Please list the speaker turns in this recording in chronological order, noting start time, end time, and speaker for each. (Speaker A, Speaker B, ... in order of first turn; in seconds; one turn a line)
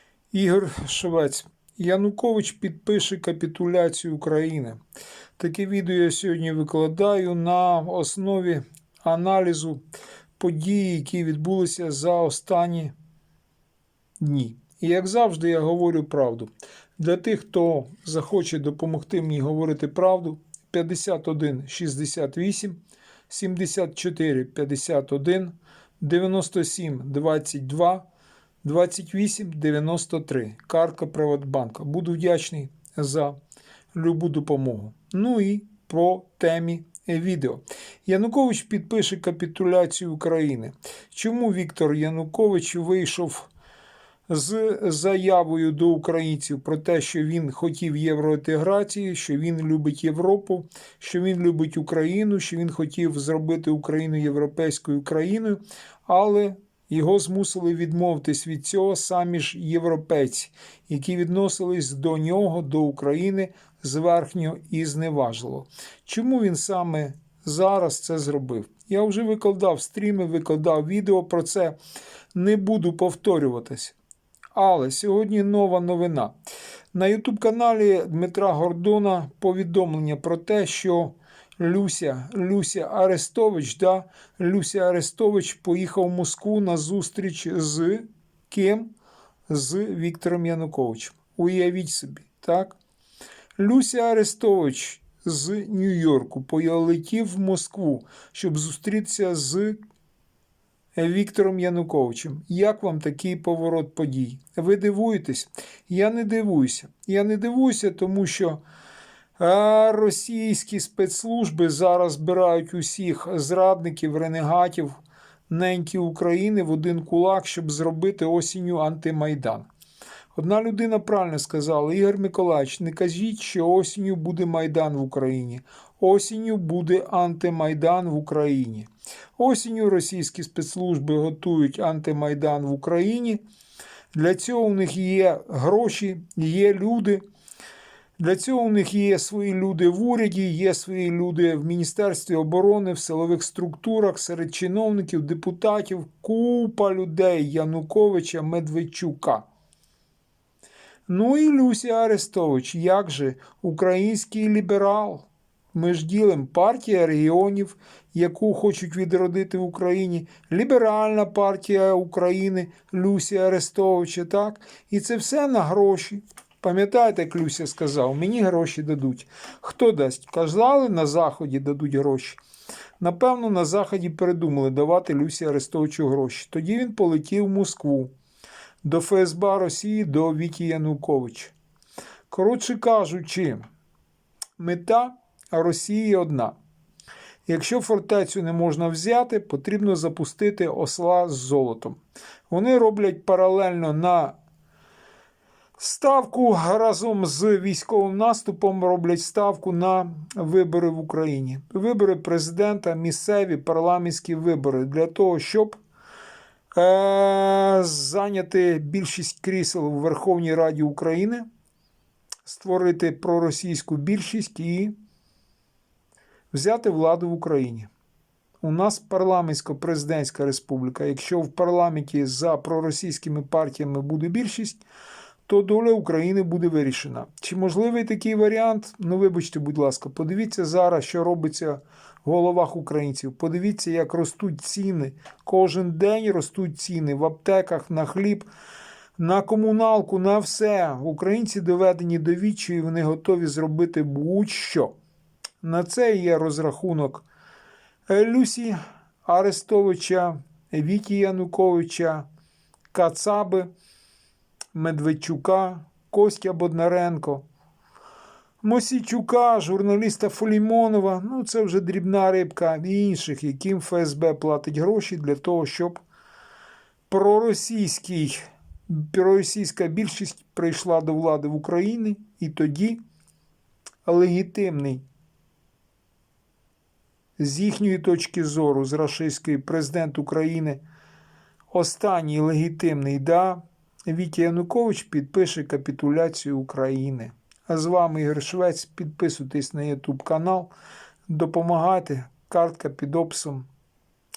Speaker A: 0.3-4.8
Speaker A: 5.4-9.8
Speaker A: 10.4-12.9
Speaker A: 14.2-28.1
Speaker A: 28.6-33.4
Speaker A: 33.9-43.5
Speaker A: 44.3-71.8
Speaker A: 72.3-74.0
Speaker A: 74.5-76.3
Speaker A: 76.9-88.9
Speaker A: 89.5-92.8
Speaker A: 93.6-99.8
Speaker A: 100.9-108.6
Speaker A: 109.4-119.7
Speaker A: 120.3-133.4
Speaker A: 134.1-137.2
Speaker A: 138.2-149.4
Speaker A: 151.1-172.4
Speaker A: 173.0-178.1
Speaker A: 178.8-181.5
Speaker A: 182.3-183.7
Speaker A: 184.6-186.5
Speaker A: 187.4-192.0
Speaker A: 192.5-194.3
Speaker A: 195.8-205.8
Speaker A: 206.7-211.5
Speaker A: 212.4-214.9
Speaker A: 216.5-217.9
Speaker A: 218.6-224.8
Speaker A: 225.5-238.5
Speaker A: 239.2-244.9
Speaker A: 245.6-247.2
Speaker A: 248.1-252.2
Speaker A: 252.9-253.7
Speaker A: 254.7-257.4
Speaker A: 258.6-266.0
Speaker A: 267.1-273.0
Speaker A: 274.0-275.0
Speaker A: 277.4-280.8
Speaker A: 281.7-290.7
Speaker A: 291.3-293.7